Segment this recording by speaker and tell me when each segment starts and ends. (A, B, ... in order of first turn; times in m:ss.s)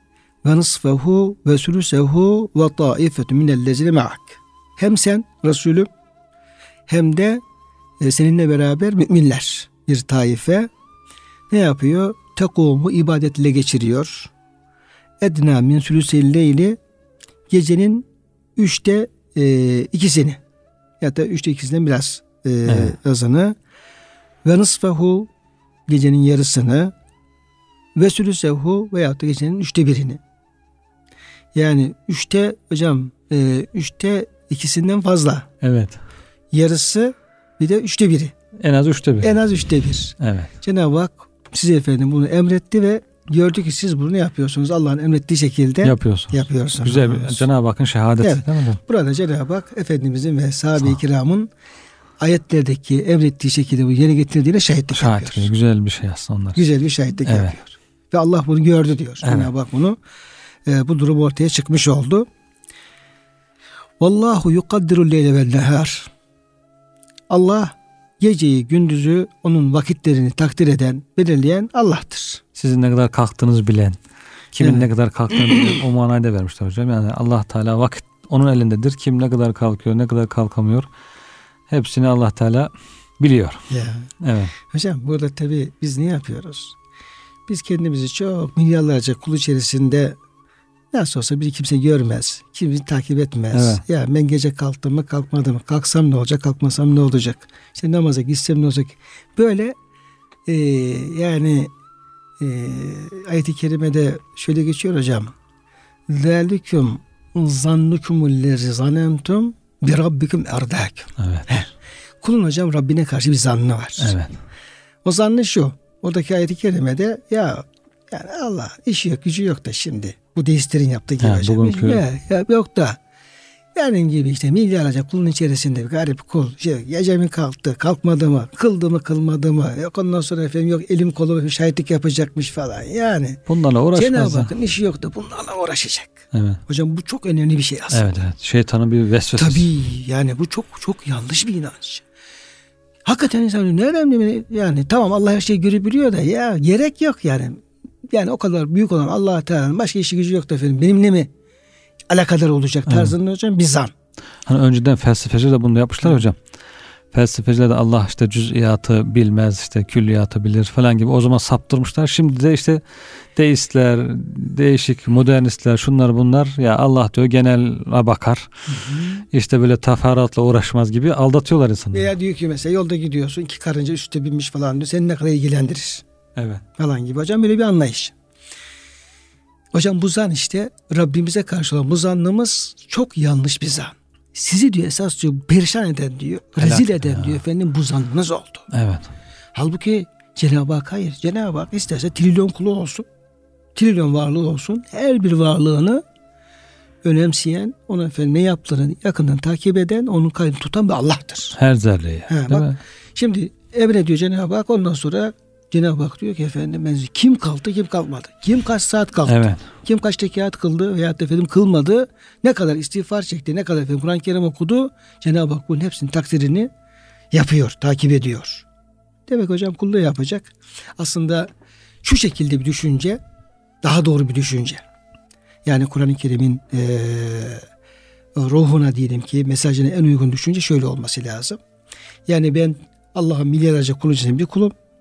0:00.4-0:05.9 A
0:06.9-0:07.4 A
0:08.0-0:10.7 A
0:11.5-0:14.3 A
0:15.2-0:16.8 A
0:17.5-0:20.4 A
0:21.0-0:23.5 A
0:22.7-0:22.9 B
0:24.4-0:25.3 A
0:25.9-0:26.9 A
0:28.0-0:30.2 A
0:31.5-0:35.5 A
0:35.6-0:36.0 B
0:36.5-0:38.3 A
0:38.6-0:39.4 B
0:39.2-0:47.4 A
0:40.2-0:40.5 B
0:45.8-0:48.8 B
0:48.2-0:51.5 A
0:52.2-0:55.5 A
0:54.9-0:56.7 B
0:56.6-1:00.0 A
0:57.2-0:57.6 B
0:59.2-0:59.5 B
1:00.6-1:02.3 A
1:04.0-1:06.1 A
1:07.3-1:12.4 A
1:12.6-1:14.0 B
1:14.5-1:20.9 B
1:14.6-1:14.8 A
1:21.7-1:23.6 B
1:23.7-1:26.8 A
1:24.2-1:24.5 B
1:27.5-1:30.2 A
1:30.9-1:39.8 A
1:33.5-1:33.8 B
1:40.5-1:41.7 A
1:42.4-1:45.3 A
1:46.1-1:54.2 A
1:51.2-1:51.6 B
1:54.0-1:54.4 B
1:55.0-2:03.0 A
2:01.2-2:02.0 B
2:03.7-2:13.4 A
2:13.5-2:14.5 B
2:13.9-2:18.2 A
2:16.3-2:16.6 B
2:17.9-2:19.6 B
2:19.4-2:22.0 A
2:23.0-2:31.3 A
2:32.1-2:33.9 A
2:32.9-2:33.1 B
2:34.4-2:36.4 B
2:37.1-2:42.8 B
2:43.3-2:48.5 B
2:48.7-2:49.2 A
2:49.3-2:52.1 B
2:51.9-2:56.0 A
2:56.4-2:56.6 B
2:56.8-2:58.1 A
2:59.7-3:08.7 A
3:06.6-3:07.4 B
3:08.7-3:09.1 B
3:09.5-3:13.0 A
3:13.8-3:16.0 A
3:17.0-3:21.6 A
3:21.5-3:22.8 B
3:22.3-3:36.7 A
3:29.2-3:29.6 B
3:37.3-3:38.6 A
3:39.3-3:41.5 A
3:42.0-3:43.2 A
3:43.8-3:44.8 A
3:45.6-3:47.6 A
3:48.4-3:51.6 A
3:52.3-3:54.7 A